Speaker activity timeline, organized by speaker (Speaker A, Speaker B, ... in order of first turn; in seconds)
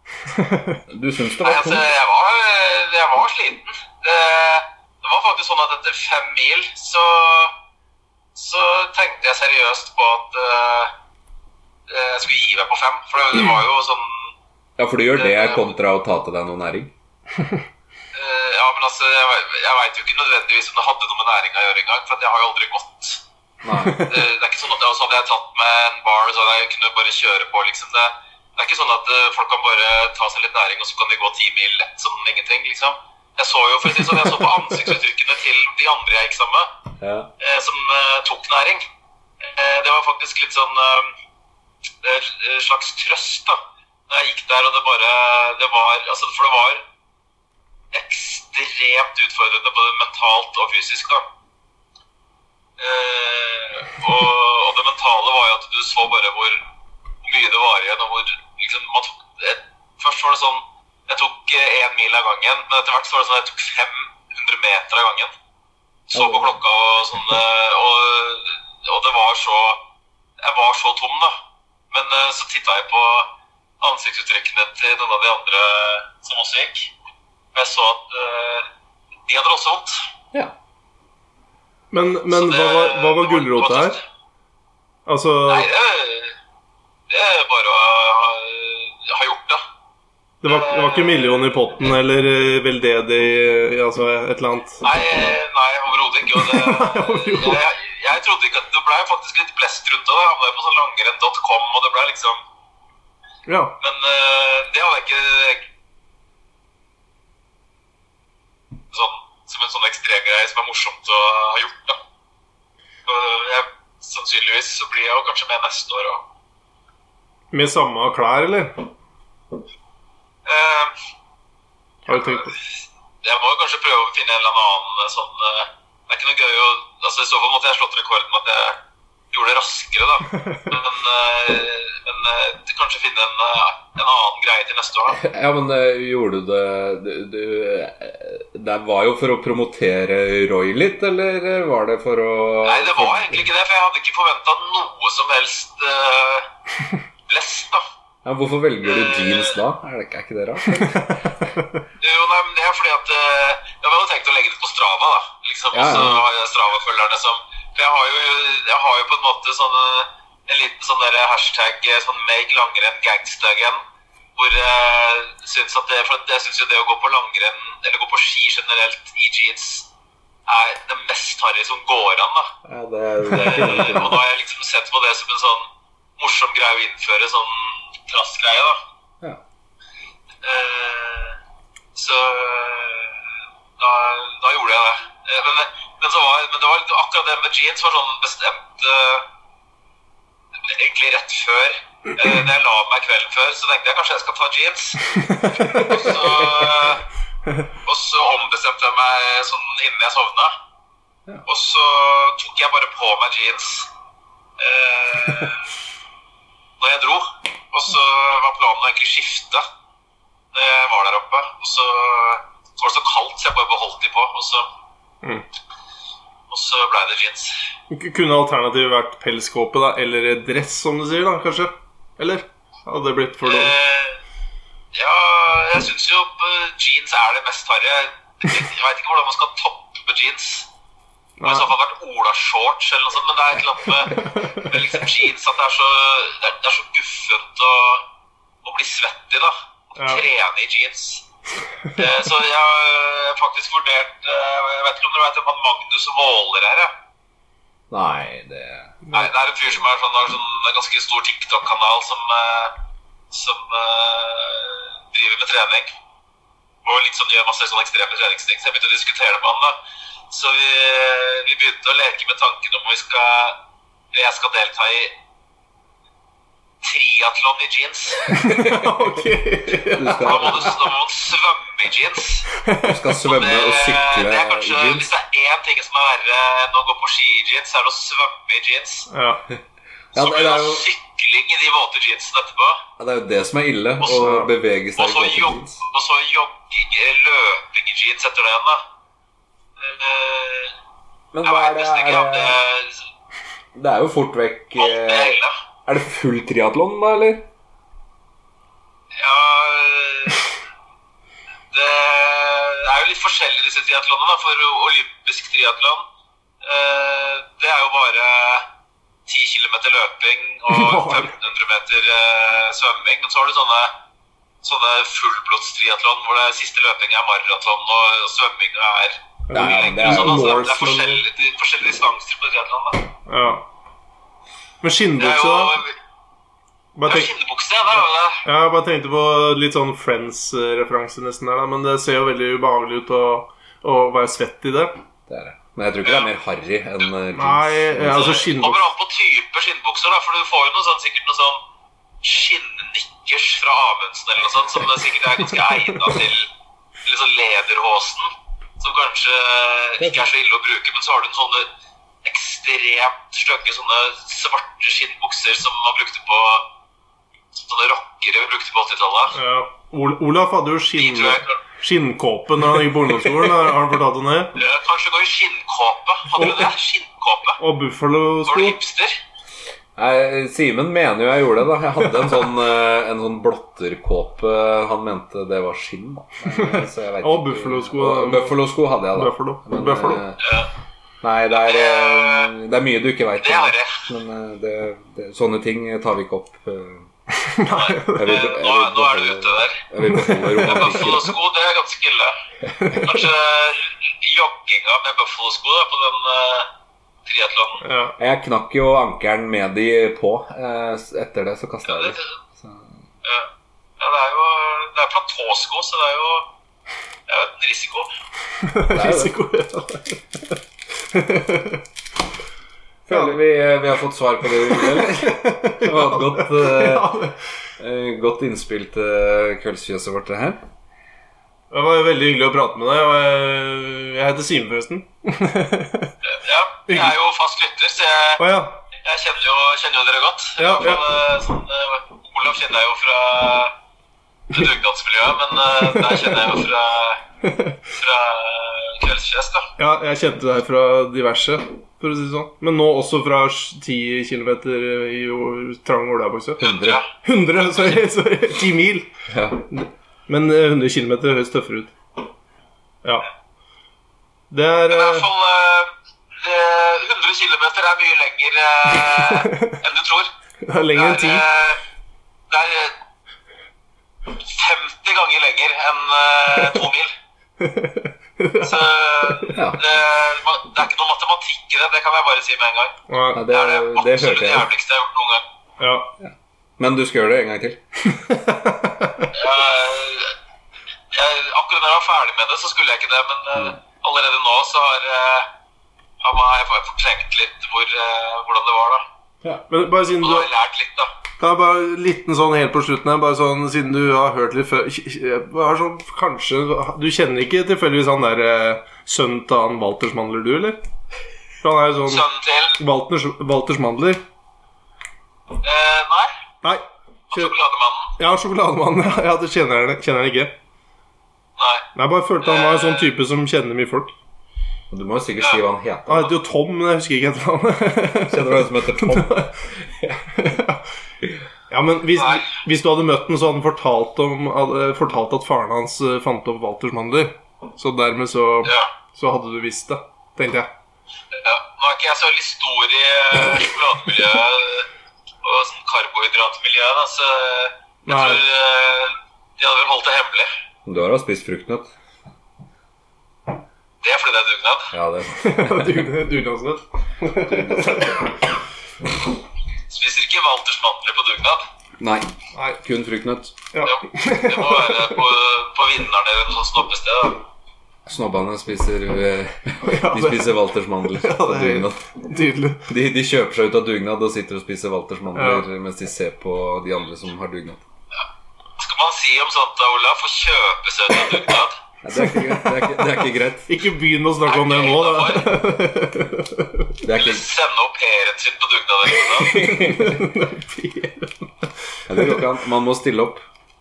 Speaker A: 0.3-0.8, 23.8-24.1, 81.9-84.0, 85.1-85.7, 90.4-94.8, 96.3-97.6, 103.5-103.8, 117.5-118.9, 122.1-122.5, 130.3-130.7, 150.8-151.8, 195.0-196.1, 217.9-223.8, 231.4-231.7, 234.1-234.7, 240.0-240.2, 249.0-249.3, 268.3-270.7, 272.5-273.0, 279.1-279.4, 284.0-284.5, 310.7-311.3, 319.5-321.2, 323.3-323.6, 324.8-325.8, 326.9-327.3, 328.4-335.0, 337.3-338.8, 345.5-346.2, 359.3-364.6, 366.3-366.7, 367.6-368.8, 376.5-380.3, 387.3-388.3, 390.0-390.9, 392.7-393.2, 397.8-398.2, 408.6-411.8, 413.1-413.4, 414.6-417.4, 421.7-426.1, 426.9-427.2, 428.4-428.8, 430.6-431.1, 435.7-436.6, 437.4-437.8, 439.8-449.1, 449.7-451.9, 454.5-455.3, 458.9-459.8, 460.6-461.5, 466.6-466.8, 467.6-469.6, 473.1-473.4, 475.8-476.1, 478.1-479.3, 489.7-490.5, 491.4-500.9, 501.6-502.2, 502.8-504.2, 506.6-507.5, 508.2-510.6, 511.9-514.1, 516.1-519.6, 520.3-520.8, 521.7-530.7, 538.1-538.4, 545.3-548.4, 552.5-552.8, 553.7-555.3, 559.8-562.9, 565.3-565.6, 572.1-572.9, 573.7-577.0, 579.3-582.4
Speaker B: 0.9-1.9, 14.8-16.9, 23.6-24.2, 37.0-37.3, 66.1-66.6, 135.1-143.5, 148.2-151.5, 155.7-156.2, 172.6-174.2, 195.6-196.8, 247.9-249.0, 268.3-269.0, 269.8-270.8, 272.8-275.1, 280.1-280.9, 283.0-285.8, 291.3-292.6, 293.7-297.5, 319.5-320.8, 335.3-338.5, 350.0-350.3, 369.9-380.4, 381.2-387.1, 388.1-391.4, 398.2-402.9, 408.9-409.4, 413.1-417.1, 417.8-420.6, 446.6-447.0, 449.3-449.6, 469.5-469.8, 473.3-474.7, 476.2-477.8, 514.9-516.3, 518.1-520.3, 540.8-541.9, 544.9-546.1, 547.3-548.3, 552.0-553.5, 558.0-562.0, 562.9-567.8, 572.0-573.7, 577.0-577.5, 579.3-580.3, 582.1-583.4
Speaker C: 1.4-7.5, 8.3-10.9, 11.9-14.2, 15.1-15.7, 18.1-23.2, 24.0-36.7, 37.4-38.8, 39.4-41.1, 42.0-43.6, 44.1-46.8, 47.9-51.2, 52.8-56.6, 57.2-65.3, 66.1-69.8, 70.4-71.3, 71.9-76.9, 77.5-78.7, 79.3-80.0, 82.3-84.0, 85.5-86.3, 87.1-89.6, 90.4-91.5, 94.8-102.4, 103.8-105.7, 108.9-112.0, 113.1-116.2, 120.5-120.9, 122.1-122.5, 123.2-128.8, 129.3-135.2, 142.6-146.5, 147.3-147.8, 148.8-149.6, 152.0-163.8, 164.3-169.9, 170.5-172.5, 173.3-175.7, 176.2-178.8, 180.4-181.4, 181.9-183.2, 183.8-189.2, 190.7-197.0, 197.8-200.5, 201.5-203.9, 204.6-205.7, 206.8-209.6, 210.5-214.7, 216.5-217.5, 223.4-224.2, 224.9-230.7, 231.4-238.0, 238.6-241.2, 241.9-246.9, 249.1-252.7, 253.3-255.9, 256.8-259.8, 260.3-263.6, 264.1-265.1, 266.8-268.4, 270.1-272.5, 273.2-279.1, 280.1-282.8, 284.0-284.3, 284.9-288.8, 289.8-290.7, 291.4-293.0, 294.8-295.5, 299.1-300.5, 301.7-306.0, 306.6-308.6, 309.3-313.9, 314.6-323.1, 325.2-325.9, 327.1-328.4, 336.0-336.3, 338.1-341.6, 342.2-346.5, 347.0-348.3, 348.8-351.7, 352.2-356.7, 357.5-359.4, 361.0-361.6, 364.6-367.6, 368.4-369.2, 380.4-380.7, 381.5-382.5, 383.4-384.0, 387.7-389.8, 390.6-392.4, 392.9-396.7, 397.2-397.8, 401.9-402.3, 403.2-406.5, 407.3-408.1, 426.2-428.4, 428.9-433.7, 434.5-437.2, 437.9-439.7, 446.6-447.1, 454.9-460.3, 460.9-461.8, 462.5-463.0, 464.4-467.1, 468.6-475.4, 479.3-480.3, 481.1-485.5, 486.2-489.0, 490.2-491.1, 502.0-502.8, 505.6-506.3, 507.3-508.1, 511.6-511.9, 512.4-513.1, 522.2-522.5, 531.3-534.9, 535.4-540.5, 544.0-544.9, 549.9-551.6, 553.8-557.4, 568.8-571.8, 574.5-575.6, 577.1-579.7